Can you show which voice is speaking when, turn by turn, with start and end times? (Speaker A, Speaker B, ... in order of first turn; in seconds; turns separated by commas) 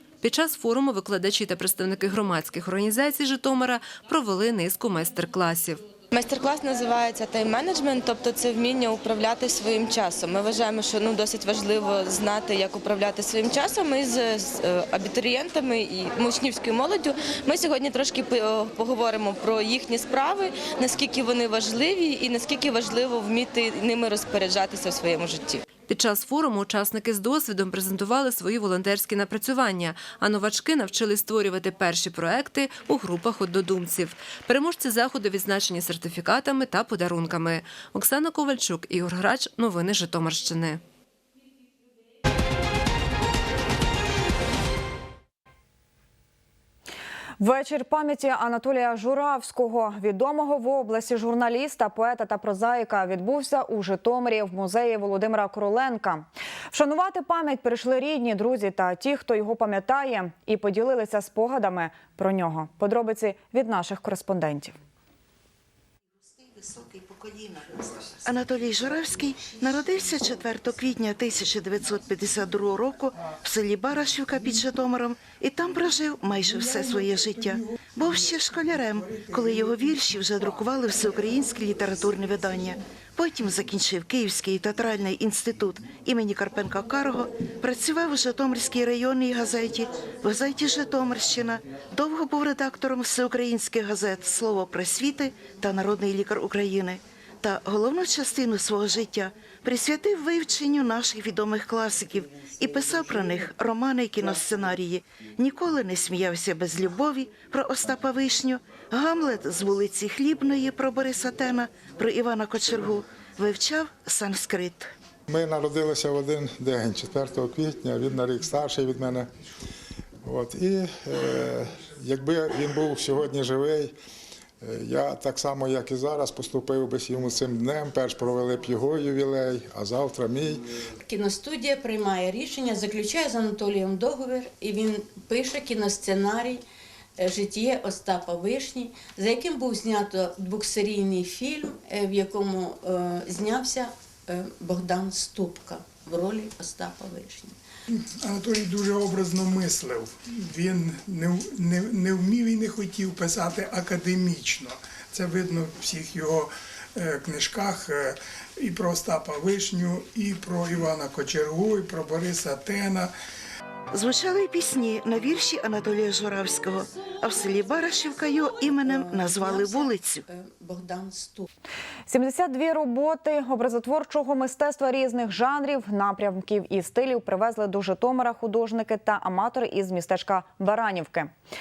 Speaker A: 0.2-5.8, Speaker B: 6.1-25.6, Speaker A: 25.9-40.8, Speaker C: 47.4-64.8, Speaker D: 66.5-114.9, Speaker E: 115.3-119.3, Speaker E: 120.2-124.0, Speaker E: 124.6-130.6, Speaker F: 131.1-136.6, Speaker F: 137.2-147.5, Speaker G: 148.2-163.1, Speaker D: 163.9-170.2, Speaker F: 169.2-169.6, Speaker F: 170.3-171.4, Speaker C: 172.1-181.3